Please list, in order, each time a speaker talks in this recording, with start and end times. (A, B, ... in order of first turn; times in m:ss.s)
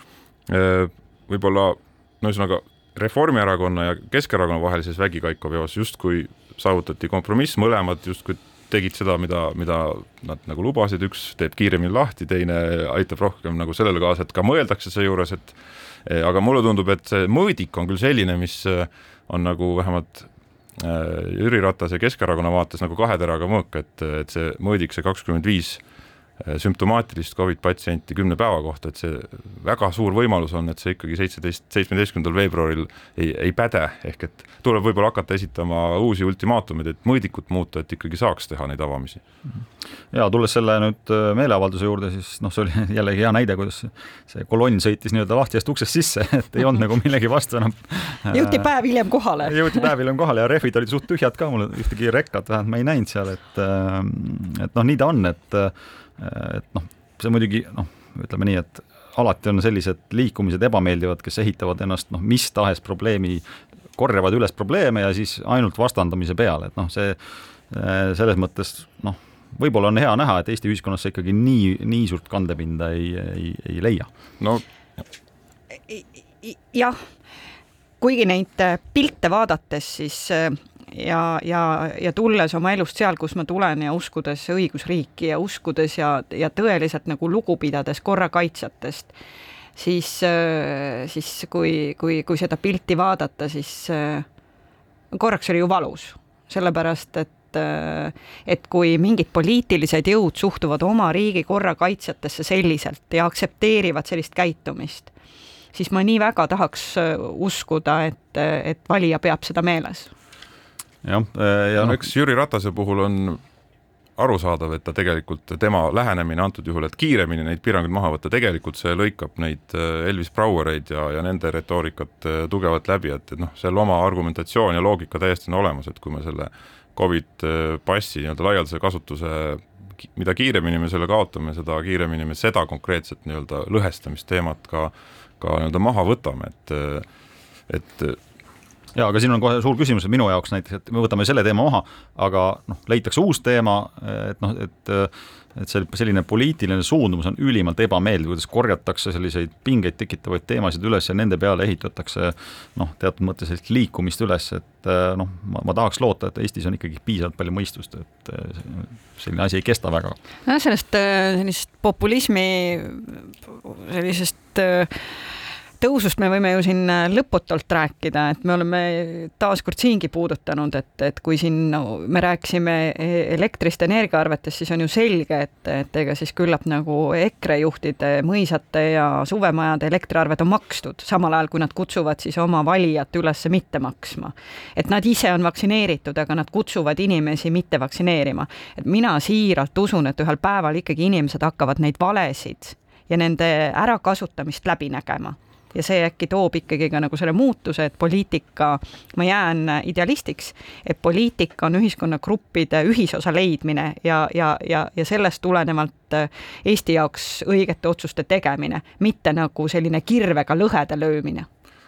0:00.5-0:25.8 A
0:26.4-0:39.2 A
0:40.1-0:48.7 B
0:48.3-0:49.9 C
0:49.4-1:03.4 B
1:04.0-1:07.2 B
1:07.7-1:14.1 B
1:15.9-1:17.0 C
1:18.0-1:29.1 C
1:29.8-1:34.3 C
1:35.1-1:45.1 C
1:45.7-1:50.1 C
1:51.0-1:52.0 B
1:51.8-1:53.4 A
1:54.2-2:17.1 A
2:17.7-2:18.2 A
2:19.0-2:40.2 B
2:40.5-2:45.3 C
2:45.8-3:31.5 C